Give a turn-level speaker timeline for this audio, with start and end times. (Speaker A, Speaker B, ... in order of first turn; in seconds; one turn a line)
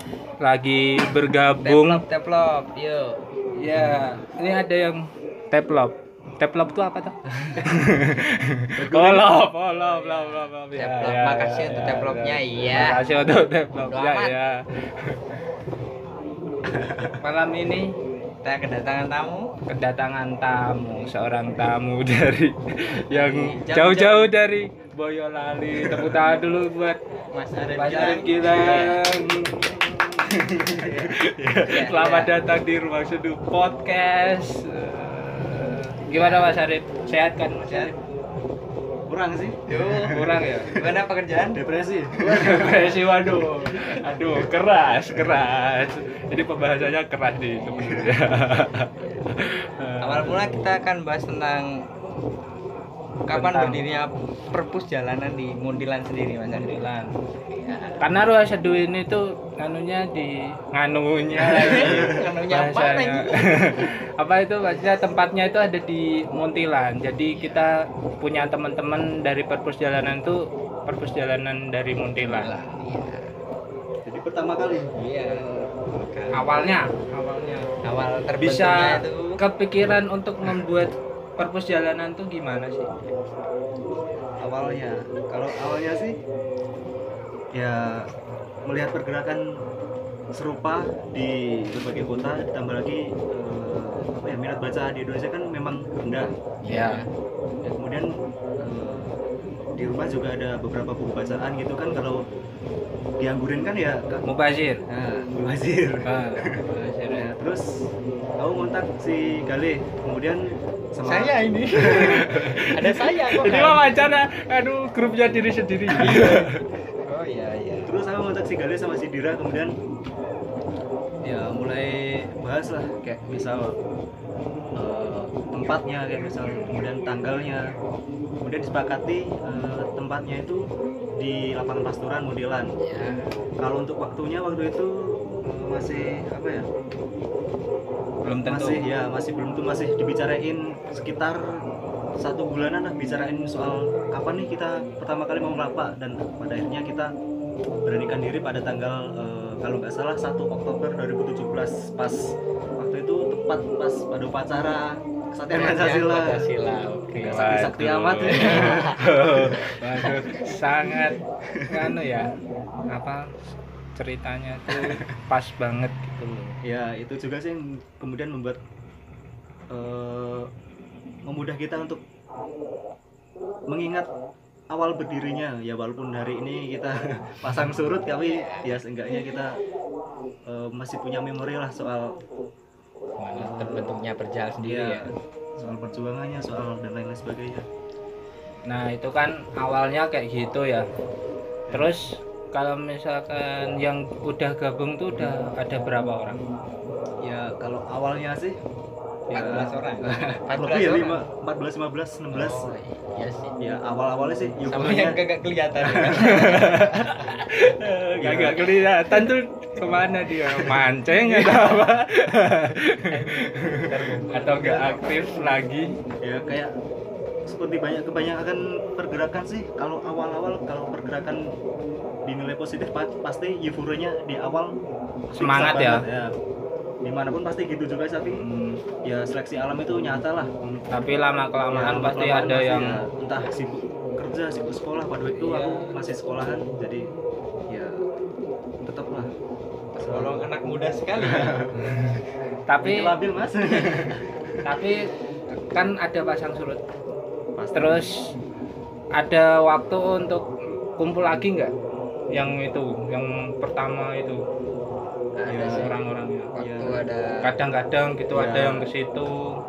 Speaker A: 0.4-2.0
Speaker B: 1.6-3.2
Speaker A: 3.6-15.2
Speaker C: 8.8-9.4
Speaker B: 9.7-13.0
Speaker B: 13.8-14.3
Speaker C: 16.7-17.1
Speaker A: 17.2-17.9
Speaker B: 18.4-19.5
Speaker A: 19.7-27.0
Speaker B: 23.1-24.3
Speaker B: 27.3-29.1
Speaker A: 27.8-37.9
Speaker B: 30.7-32.3
Speaker B: 36.1-36.6
Speaker B: 37.6-38.0
Speaker C: 39.1-40.8
Speaker B: 39.7-40.2
Speaker A: 40.1-40.7
Speaker B: 40.7-41.6
Speaker C: 41.5-43.4
Speaker A: 42.2-50.7
Speaker C: 47.8-48.1
Speaker B: 50.0-51.7
Speaker B: 53.3-56.8
Speaker A: 53.3-53.8
Speaker A: 56.5-57.1
Speaker B: 57.5-58.0
Speaker A: 58.0-72.6
Speaker B: 61.4-63.9
Speaker B: 67.3-67.6
Speaker B: 72.2-73.3
Speaker C: 74.0-74.9
Speaker B: 74.9-76.5
Speaker A: 75.3-75.6
Speaker A: 76.3-77.7
Speaker B: 77.8-79.4
Speaker A: 78.4-82.9
Speaker C: 84.4-86.2
Speaker C: 87.5-88.1
Speaker C: 88.7-89.6
Speaker C: 90.3-96.3
Speaker B: 96.6-97.1
Speaker A: 96.7-97.0
Speaker C: 97.6-99.2
Speaker C: 99.8-102.2
Speaker C: 103.2-104.2
Speaker A: 104.2-104.8
Speaker C: 104.9-112.6
Speaker A: 106.1-107.3
Speaker B: 111.0-114.0
Speaker A: 112.2-116.6
Speaker B: 115.9-117.9
Speaker C: 117.8-119.8
Speaker C: 121.2-123.8
Speaker B: 124.8-125.2
Speaker C: 124.8-127.7
Speaker C: 128.4-132.7
Speaker B: 132.8-133.3
Speaker C: 133.6-136.7
Speaker A: 138.2-138.8
Speaker C: 138.4-141.4
Speaker C: 142.2-147.1
Speaker C: 147.8-156.5
Speaker B: 155.5-157.5
Speaker A: 157.2-162.3
Speaker C: 157.2-159.2
Speaker B: 158.3-159.0
Speaker B: 159.6-160.1
Speaker C: 161.5-161.8
Speaker A: 162.9-163.3
Speaker A: 164.0-166.6
Speaker C: 164.7-165.0
Speaker C: 166.6-168.6
Speaker C: 169.7-170.5
Speaker C: 171.2-172.0
Speaker C: 173.7-174.1
Speaker C: 174.7-179.6
Speaker B: 178.1-178.8
Speaker C: 180.5-182.2
Speaker B: 183.2-185.1
Speaker C: 183.3-184.0
Speaker C: 184.6-187.7
Speaker A: 185.6-185.9
Speaker A: 188.7-190.9
Speaker C: 191.7-191.9
Speaker A: 191.7-196.4
Speaker C: 197.2-198.6
Speaker B: 199.3-201.2
Speaker C: 199.3-202.8
Speaker B: 202.3-203.6
Speaker C: 203.6-205.2
Speaker B: 204.7-207.3
Speaker A: 206.1-216.0
Speaker C: 208.2-208.7
Speaker B: 211.4-211.8
Speaker B: 213.1-215.5
Speaker C: 216.2-216.8
Speaker C: 217.5-221.6
Speaker C: 222.3-224.8
Speaker C: 225.3-226.3
Speaker A: 225.3-226.0
Speaker C: 227.0-228.4
Speaker A: 228.3-228.8
Speaker C: 229.0-230.9
Speaker A: 230.9-233.0
Speaker C: 231.7-237.1
Speaker A: 235.3-236.0
Speaker C: 237.7-238.0
Speaker C: 238.8-239.3
Speaker B: 239.9-241.7
Speaker C: 240.0-240.5
Speaker C: 241.2-241.9
Speaker A: 242.7-243.2
Speaker C: 242.8-244.6
Speaker A: 244.6-246.8
Speaker C: 247.6-248.1
Speaker A: 247.7-248.2
Speaker A: 249.2-251.7
Speaker A: 252.3-254.4
Speaker B: 255.4-256.0
Speaker C: 255.5-255.9
Speaker A: 255.7-256.6
Speaker B: 256.6-257.5
Speaker C: 256.6-257.1
Speaker A: 257.4-259.6
Speaker C: 258.3-258.9